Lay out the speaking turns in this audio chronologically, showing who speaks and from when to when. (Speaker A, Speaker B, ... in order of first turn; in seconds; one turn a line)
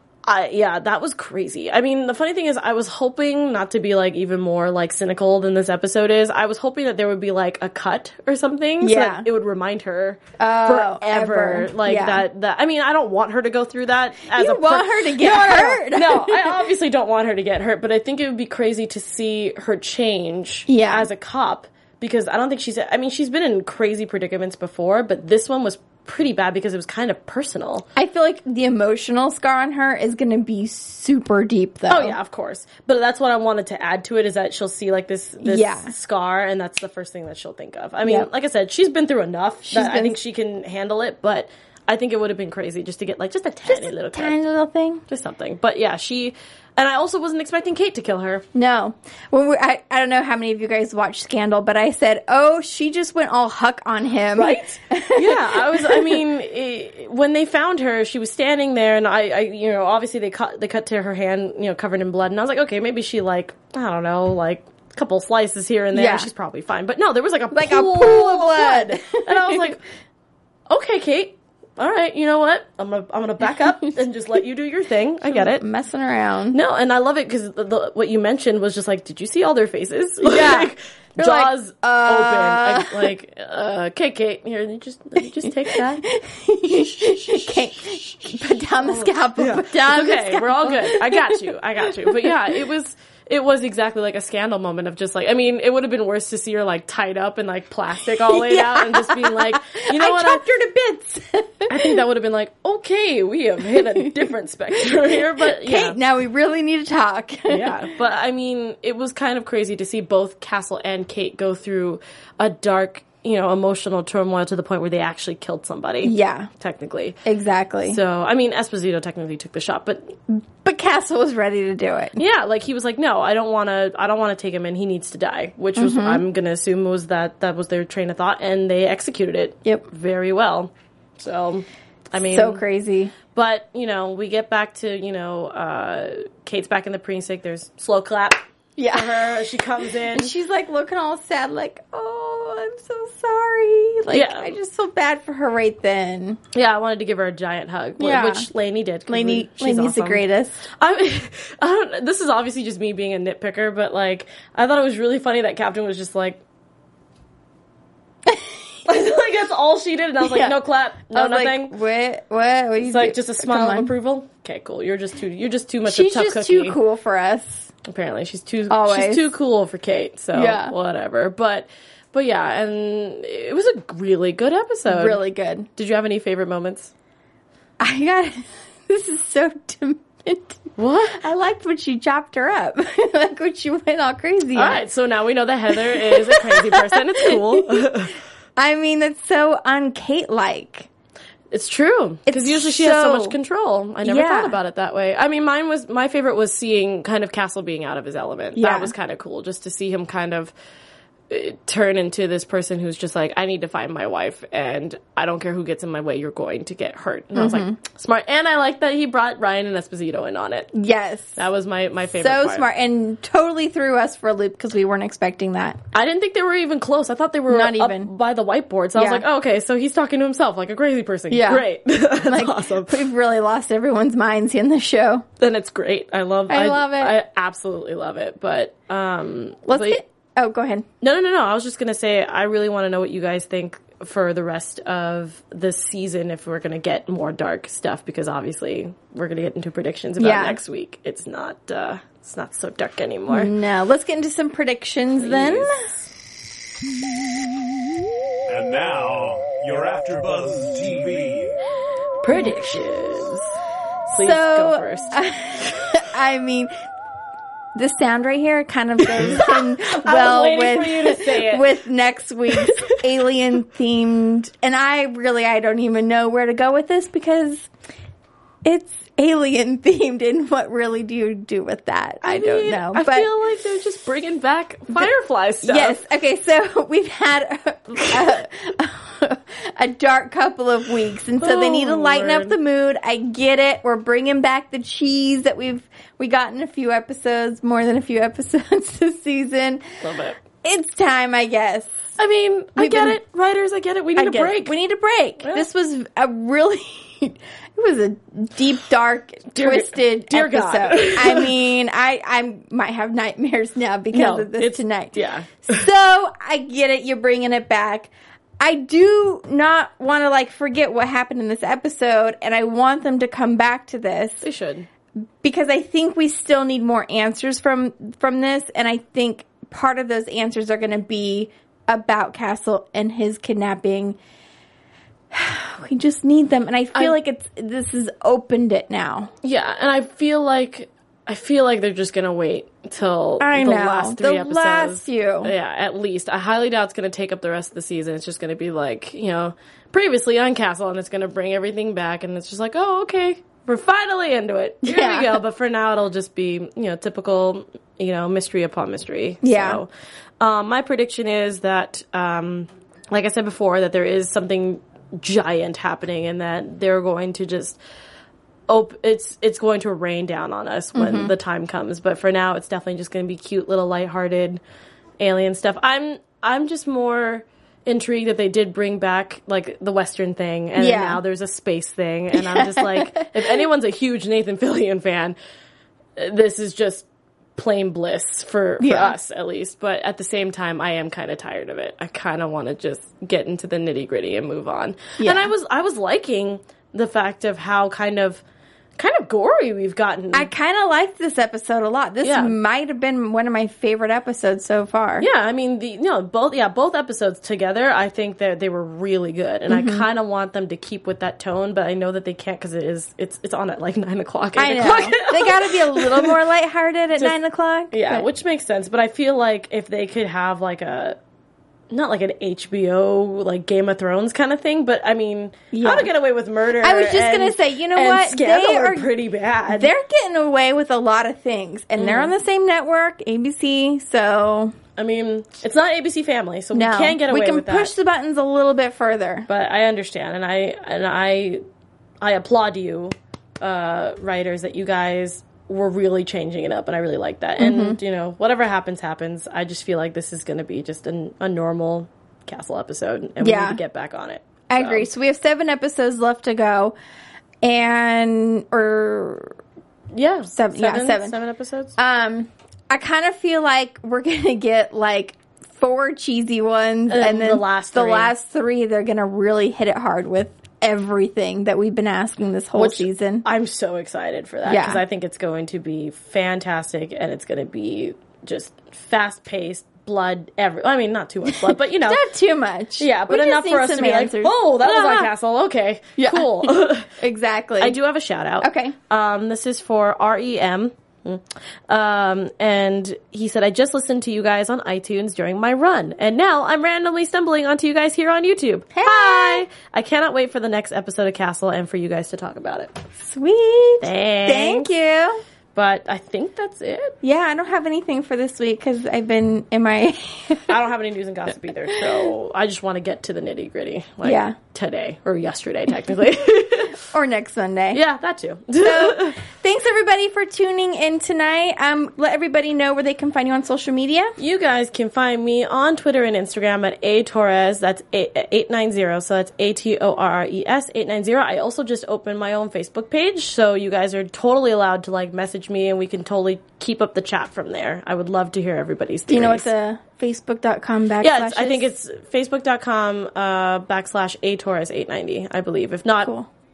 Speaker A: 0.2-27.9
Speaker B: 8.8-9.2
Speaker B: 10.4-12.2
Speaker B: 14.3-16.6
Speaker B: 20.7-21.1
Speaker B: 27.9-32.2
Speaker A: 31.9-44.4
Speaker B: 35.4-35.9
Speaker B: 39.6-40.1
Speaker B: 43.6-45.0
Speaker A: 45.1-48.4
Speaker B: 48.5-56.2
Speaker A: 54.3-69.8
Speaker B: 65.9-66.3
Speaker B: 67.5-69.7
Speaker A: 70.7-75.6
Speaker B: 75.2-76.6
Speaker A: 76.5-86.0
Speaker B: 80.2-83.1
Speaker B: 85.2-92.3
Speaker A: 86.7-100.4
Speaker B: 98.2-102.0
Speaker A: 101.7-106.0
Speaker B: 105.2-107.8
Speaker A: 107.5-117.2
Speaker B: 116.0-116.5
Speaker B: 117.2-118.0
Speaker A: 117.9-120.2
Speaker B: 120.3-122.2
Speaker A: 122.2-132.6
Speaker B: 125.8-126.2
Speaker B: 132.2-133.1
Speaker A: 133.3-140.3
Speaker B: 138.8-139.3
Speaker B: 140.1-146.4
Speaker A: 144.1-144.5
Speaker A: 146.5-156.4
Speaker B: 148.0-148.5
Speaker B: 149.1-150.7
Speaker A: 158.8-161.7
Speaker B: 160.2-160.6
Speaker B: 161.1-163.9
Speaker A: 162.8-166.8
Speaker B: 165.8-167.7
Speaker A: 167.8-175.2
Speaker B: 168.7-169.3
Speaker B: 170.3-170.7
Speaker B: 174.9-175.7
Speaker A: 175.8-176.9
Speaker B: 177.8-184.8
Speaker A: 180.8-181.2
Speaker A: 184.5-188.2
Speaker B: 185.8-187.9
Speaker B: 188.6-190.9
Speaker A: 191.5-200.5
Speaker B: 192.3-193.4
Speaker B: 194.0-194.6
Speaker B: 198.6-198.9
Speaker A: 201.3-210.7
Speaker B: 207.3-207.8
Speaker B: 210.7-211.4
Speaker A: 211.3-212.7
Speaker B: 212.1-215.8
Speaker A: 215.9-223.0
Speaker B: 217.5-218.1
Speaker B: 219.0-219.2
Speaker B: 221.3-225.2
Speaker A: 225.4-230.0
Speaker B: 226.5-227.2
Speaker B: 229.7-230.8
Speaker A: 231.0-243.5
Speaker B: 240.2-240.6
Speaker B: 243.3-245.9
Speaker A: 245.1-246.1
Speaker C: 248.5-251.5
Speaker A: 252.2-253.6
Speaker A: 254.1-255.7
Speaker B: 254.1-256.7
Speaker B: 257.7-267.7
Speaker A: 259.1-261.7
Speaker A: 262.5-262.9
Speaker B: 268.6-273.3
Speaker A: 272.2-276.0
Speaker B: 275.6-289.9
Speaker A: 281.4-282.6
Speaker A: 290.0-290.4
Speaker B: 290.6-292.1
Speaker A: 292.2-294.7
Speaker B: 292.8-293.2
Speaker B: 294.1-314.4
Speaker A: 295.4-295.6
Speaker A: 299.5-301.6
Speaker A: 304.1-305.8
Speaker A: 314.4-314.9
Speaker B: 315.2-324.2
Speaker B: 325.3-329.3
Speaker A: 329.4-357.8
Speaker B: 333.4-335.5
Speaker B: 344.8-345.4
Speaker B: 349.4-349.8
Speaker A: 358.7-364.6
Speaker B: 360.9-361.3
Speaker A: 365.2-375.4
Speaker B: 370.8-371.2
Speaker B: 372.3-373.4
Speaker A: 376.1-388.4
Speaker B: 378.8-379.1
Speaker B: 385.2-385.5
Speaker A: 389.0-390.5
Speaker B: 390.3-395.2
Speaker A: 392.2-392.6
Speaker A: 395.2-406.4
Speaker B: 399.7-400.1
Speaker B: 404.6-408.2
Speaker A: 407.9-411.2
Speaker A: 411.9-419.9
Speaker B: 415.7-416.1
Speaker B: 416.8-419.1
Speaker B: 419.7-424.7
Speaker A: 422.0-422.3
Speaker A: 424.9-427.9
Speaker B: 426.7-429.5
Speaker A: 429.5-431.6
Speaker A: 432.2-445.1
Speaker B: 437.6-438.0
Speaker B: 443.4-443.8
Speaker B: 444.7-446.9
Speaker B: 447.6-449.6
Speaker A: 450.1-451.9
Speaker B: 450.5-451.4
Speaker B: 452.0-463.4
Speaker A: 457.1-458.3
Speaker A: 462.7-472.2
Speaker B: 464.6-465.0
Speaker B: 471.5-475.3
Speaker A: 473.0-477.1
Speaker B: 476.2-478.0
Speaker A: 477.8-493.0
Speaker B: 478.6-478.9
Speaker B: 488.9-489.6
Speaker B: 493.2-495.4
Speaker A: 494.0-494.9
Speaker A: 495.7-497.1
Speaker B: 497.2-500.7
Speaker A: 500.7-507.0
Speaker B: 504.2-504.6
Speaker B: 507.0-508.0
Speaker A: 507.9-509.4
Speaker B: 508.8-514.4
Speaker A: 514.4-529.7
Speaker B: 529.3-531.9
Speaker A: 531.2-536.3
Speaker B: 536.2-536.5